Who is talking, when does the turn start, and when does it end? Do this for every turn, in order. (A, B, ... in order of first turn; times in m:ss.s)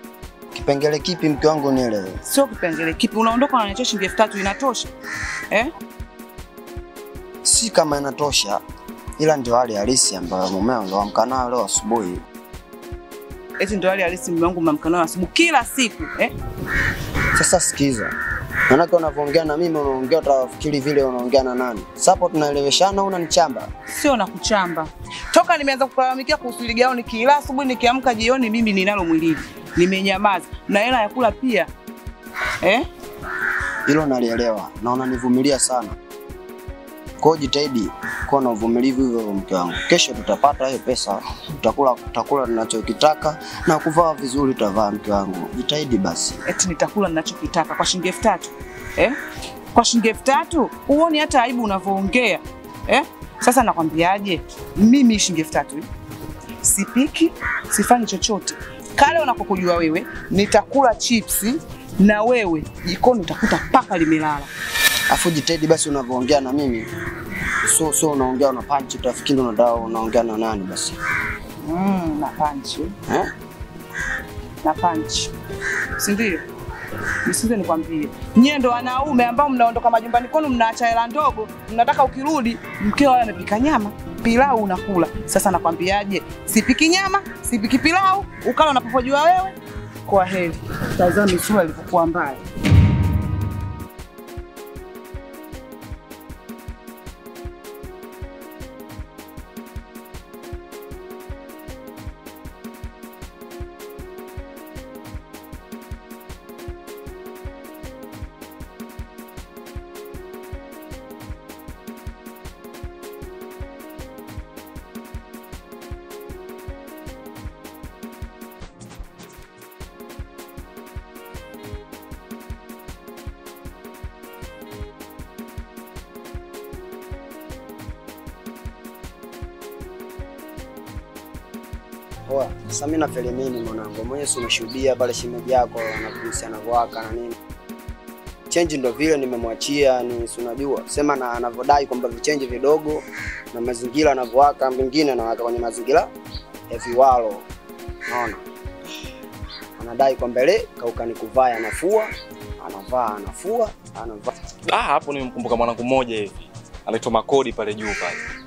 0:00.5-0:02.2 A
0:02.3-0:04.9 B
0:07.4-0:08.6 A
0:09.2-0:12.2 A
0:13.6-0:16.3 B
0:17.4-0:18.1 A
0:18.7-0:23.7 A
0:23.9-0:31.7 B
0:33.9-0:36.0 A
0:37.2-0:46.4 A
0:46.5-0:49.2 B
0:49.7-0:55.9 B
0:56.6-1:04.5 B
1:05.1-1:06.9 A
1:07.7-1:11.0 A
1:11.6-1:12.9 B
1:14.6-1:15.3 B
1:16.0-1:16.4 B
1:17.3-1:29.6 B
1:30.1-1:32.4 B
2:12.3-2:17.4 A
2:18.5-2:26.1 A
2:26.7-2:27.5 A
2:28.1-2:28.4 A
2:29.8-2:34.3 A
2:34.7-2:38.2 C